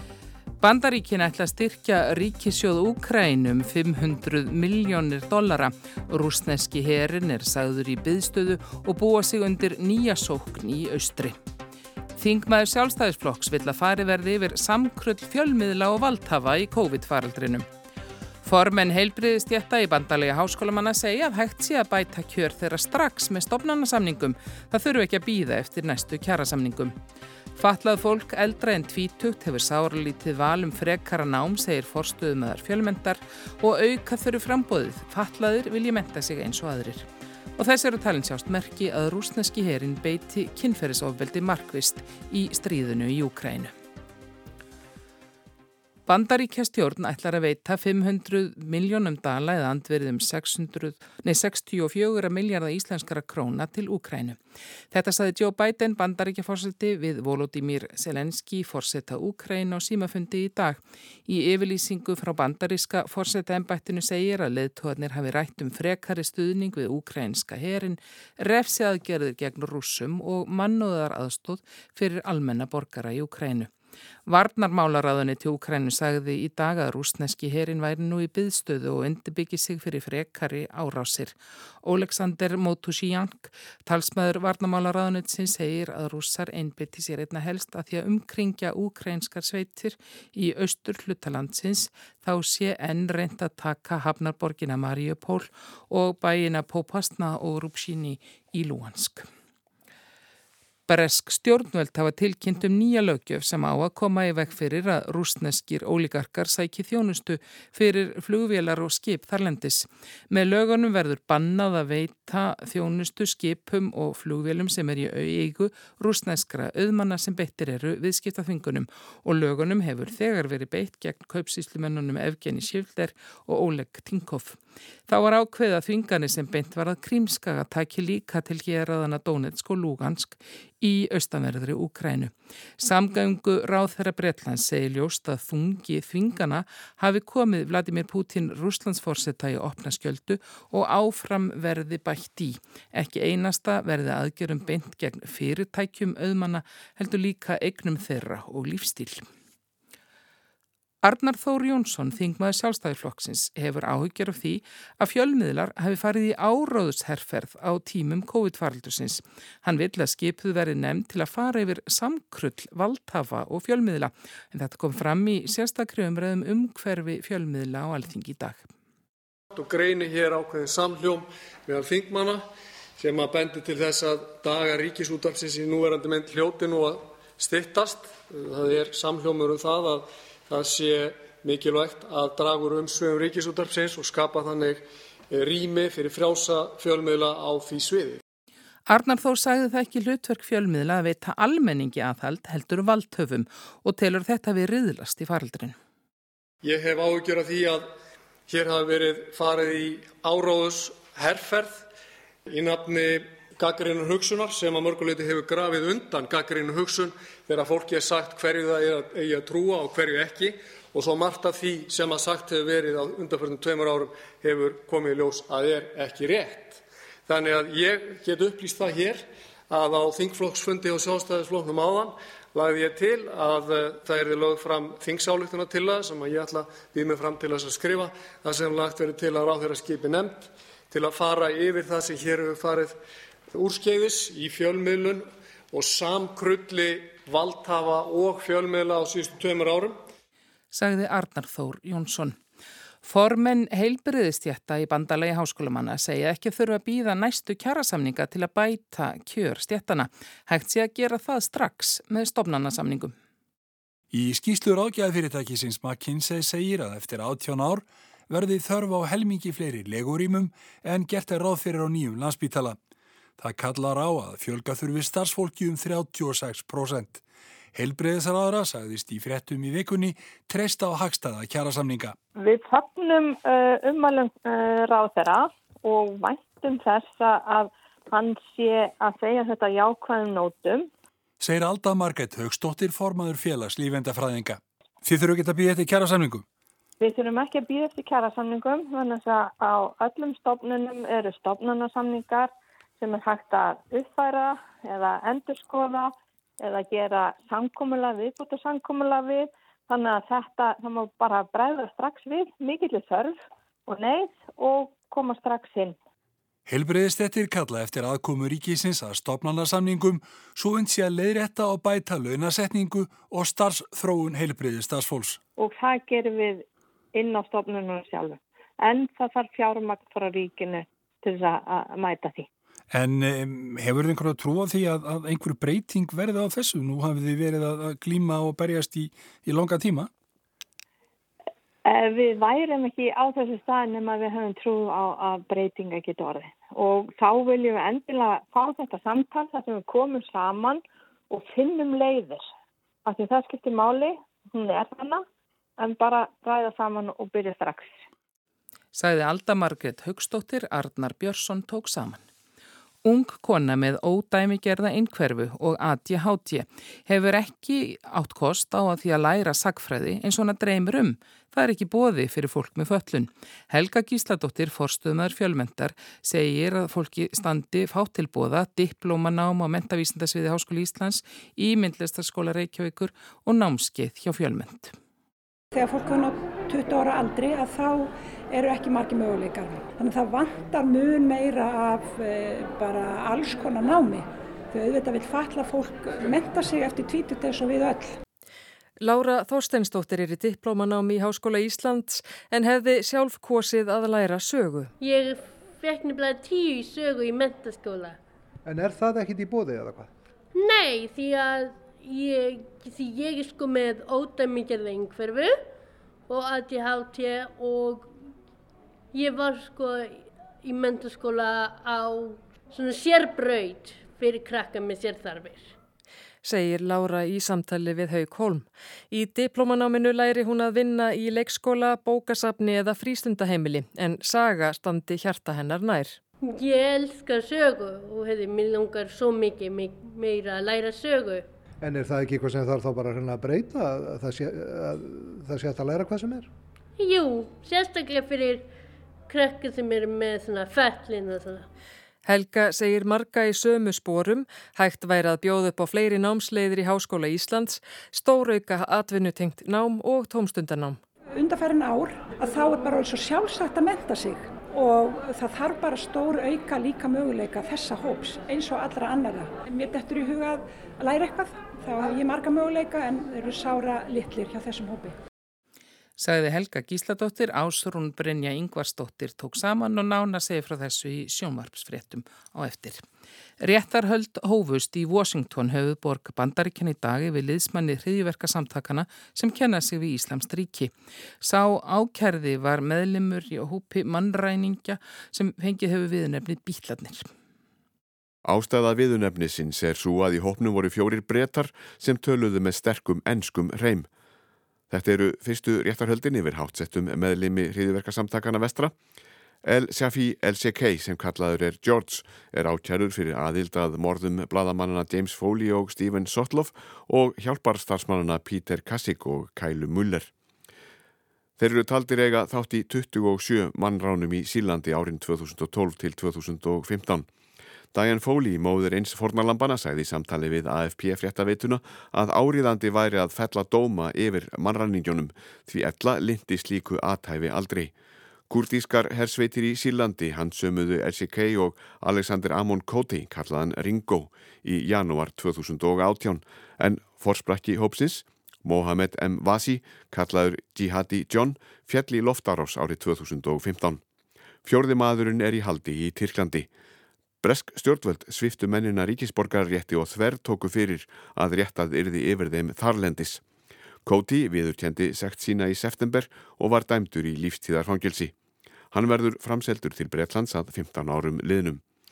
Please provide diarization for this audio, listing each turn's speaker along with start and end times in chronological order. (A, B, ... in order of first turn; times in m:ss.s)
0:00.6-0:11.4 A
0:12.2-0:17.7 A
0:18.4-0:27.0 A
0:27.6-0:37.1 A
0:37.6-0:43.7 A
0:46.1-0:54.4 A
0:54.9-1:13.7 A
1:14.3-1:39.3 A
1:40.9-2:29.3 A
2:31.0-2:48.7 A
2:49.5-3:08.2 B
3:08.9-3:15.8 A
3:16.6-3:17.9 B
3:18.5-3:21.9 B
3:22.5-3:53.0 B
3:53.5-4:00.0 B
4:00.7-4:02.4 A
4:03.0-4:13.2 A
4:14.1-4:22.8 C
4:23.4-4:27.2 C
4:27.7-4:32.2 C
4:32.4-4:40.9 D
4:41.4-4:46.4 C
4:47.0-5:06.0 D
5:06.7-5:15.4 C
5:15.6-5:22.5 D
5:22.9-5:30.1 C
5:31.8-5:42.5 D
5:43.0-5:45.2 D
5:45.8-5:48.0 D
5:48.9-5:52.2 A
5:53.0-6:15.0 A
6:15.7-6:28.2 E
6:29.0-6:34.9 F
6:35.0-6:38.2 G
6:38.6-6:40.1 H
6:40.6-6:45.5 G
6:46.3-6:48.1 G
6:49.1-6:55.7 G
6:56.4-7:06.2 F
7:06.4-7:11.4 G
7:11.8-7:16.5 H
7:17.0-7:18.7 G
7:19.3-7:21.7 G
7:22.2-7:31.0 F
7:31.4-7:45.2 E
7:46.2-7:53.0 A
7:53.6-8:07.3 A
8:08.4-8:14.1 I
8:14.9-8:19.0 I
8:19.6-8:30.3 I
8:31.6-8:37.3 I
8:37.9-8:47.9 I
8:48.5-9:04.0 I
9:04.6-9:06.7 I
9:07.4-9:13.4 I
9:14.0-9:18.3 I
9:18.9-9:21.8 I